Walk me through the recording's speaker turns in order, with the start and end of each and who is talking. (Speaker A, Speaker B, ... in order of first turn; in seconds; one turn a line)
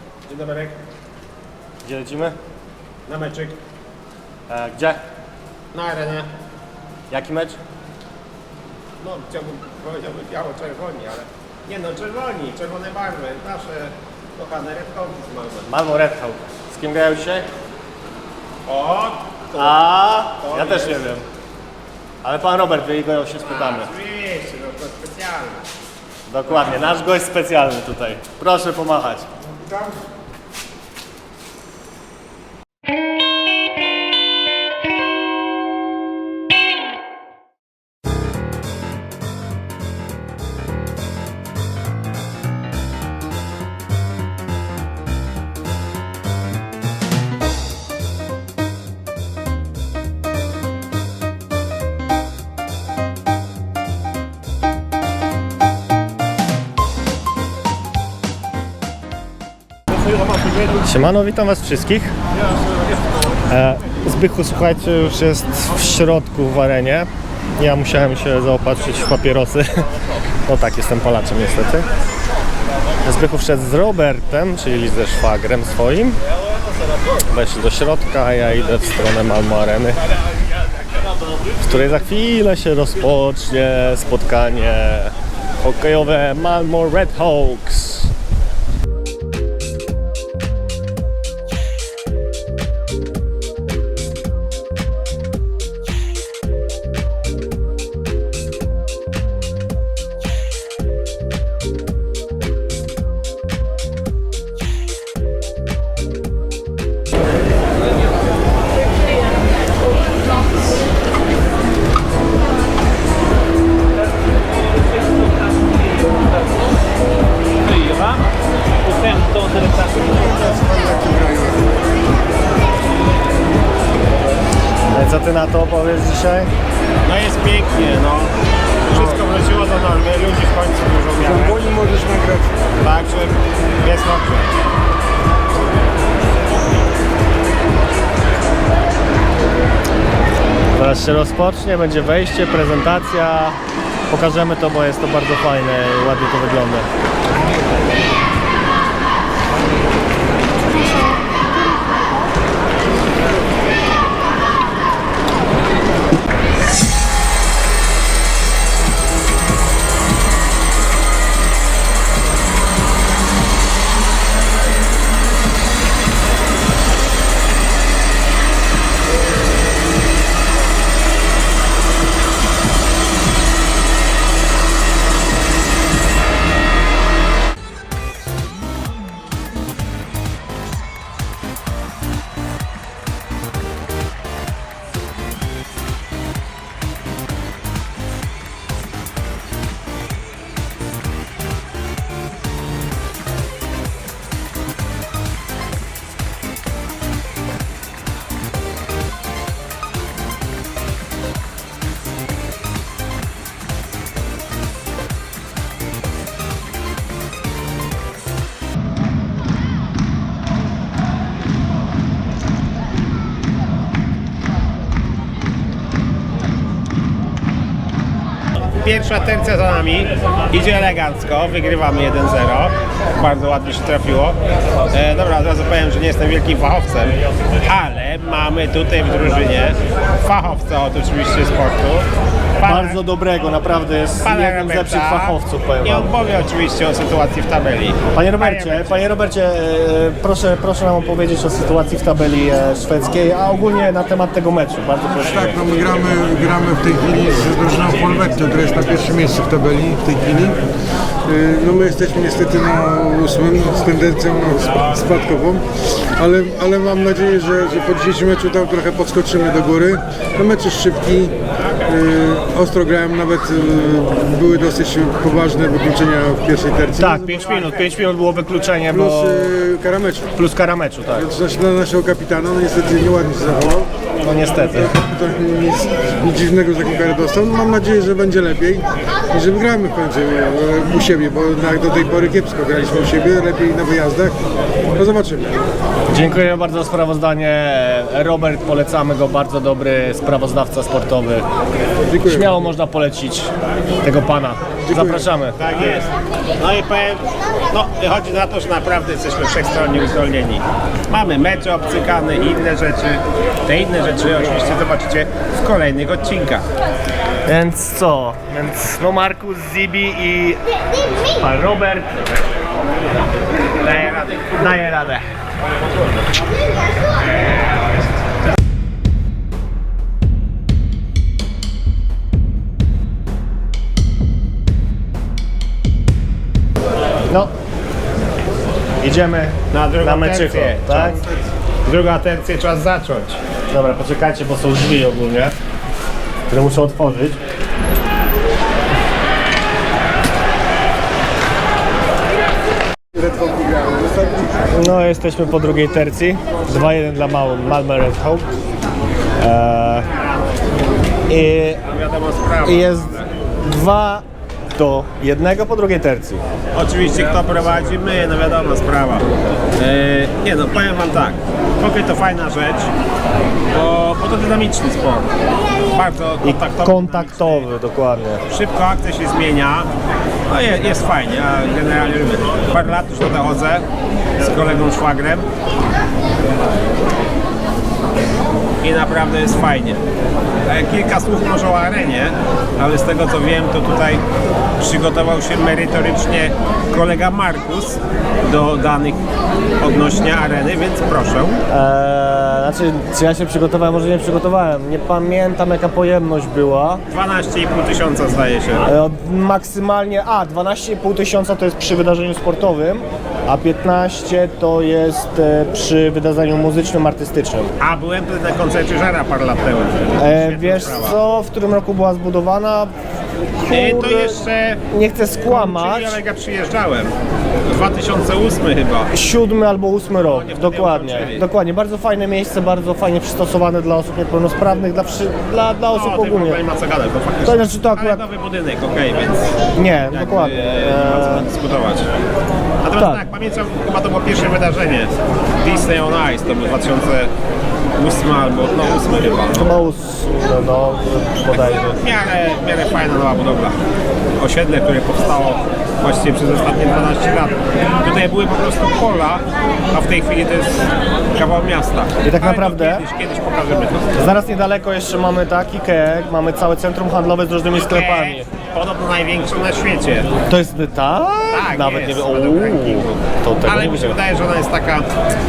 Speaker A: 0.2-0.8
Speaker B: 1.8-2.4
Speaker A: 3.0-3.5
Speaker B: 4.5-5.0
Speaker A: 5.7-6.3
Speaker B: 7.1-7.6
Speaker A: 9.0-15.7
Speaker B: 15.7-17.5
Speaker A: 18.7-19.8
Speaker B: 19.5-21.2
Speaker A: 20.4-21.1
Speaker B: 22.2-23.9
Speaker A: 23.4-25.6
Speaker B: 26.3-29.3
Speaker C: 29.6-30.0
Speaker B: 60.7-62.1
Speaker B: 63.5-69.9
Speaker B: 70.5-71.9
Speaker B: 73.0-76.2
Speaker B: 77.2-80.0
Speaker B: 81.5-88.1
Speaker A: 119.2-119.6
Speaker C: 119.7-121.7
Speaker B: 124.9-126.5
Speaker A: 127.0-128.3
Speaker A: 128.9-131.6
Speaker C: 131.2-132.5
Speaker A: 132.8-134.5
Speaker B: 140.7-143.6
Speaker B: 144.1-146.9
Speaker A: 218.7-224.4
Speaker A: 224.9-233.0
Speaker B: 232.6-236.1
Speaker A: 234.2-239.0
Speaker B: 238.1-245.6
Speaker C: 245.2-250.6
Speaker C: 251.3-267.3
Speaker B: 266.9-269.6
Speaker C: 268.9-270.3
Speaker B: 270.3-271.3
Speaker C: 271.1-273.9
Speaker B: 274.2-274.9
Speaker C: 274.6-284.4
Speaker C: 284.9-285.6
Speaker B: 286.1-291.4
Speaker C: 292.1-292.6
Speaker B: 292.2-293.5
Speaker B: 294.0-295.6
Speaker C: 294.8-295.3
Speaker A: 295.6-306.6
Speaker B: 307.5-310.6
Speaker B: 311.3-312.3
Speaker B: 313.8-315.2
Speaker B: 329.0-331.2
Speaker A: 329.7-331.1
Speaker C: 331.1-331.4
Speaker A: 331.8-333.4
Speaker B: 333.7-335.5
Speaker B: 336.5-337.4
Speaker C: 343.1-344.0
Speaker B: 344.7-348.5
Speaker B: 349.4-350.1
Speaker B: 351.3-351.8
Speaker A: 351.9-353.3
Speaker B: 352.6-354.2
Speaker B: 354.8-356.4
Speaker A: 356.8-362.9
Speaker A: 363.7-365.3
Speaker A: 365.9-367.7
Speaker B: 366.4-368.4
Speaker A: 368.5-369.9
Speaker A: 370.5-373.8
Speaker A: 374.4-375.5
Speaker A: 378.8-380.0
Speaker A: 380.6-384.2
Speaker A: 384.8-389.2
Speaker A: 389.8-391.6
Speaker B: 391.7-397.0
Speaker A: 397.1-398.9
Speaker B: 398.9-407.7
Speaker A: 407.8-411.2
Speaker B: 410.2-412.9
Speaker B: 413.6-414.4
Speaker A: 413.7-414.8
Speaker B: 414.9-416.2
Speaker A: 415.4-417.1
Speaker A: 417.6-419.1
Speaker B: 419.1-426.6
Speaker A: 420.2-421.4
Speaker A: 425.9-432.1
Speaker B: 427.4-428.2
Speaker B: 429.8-431.5
Speaker A: 432.8-437.3
Speaker B: 432.9-433.2
Speaker A: 438.0-439.7
Speaker B: 439.5-441.9
Speaker A: 441.5-443.8
Speaker A: 444.4-454.2
Speaker B: 452.2-453.0
Speaker B: 454.1-458.5
Speaker A: 457.7-460.3
Speaker B: 460.4-464.2
Speaker A: 461.5-465.1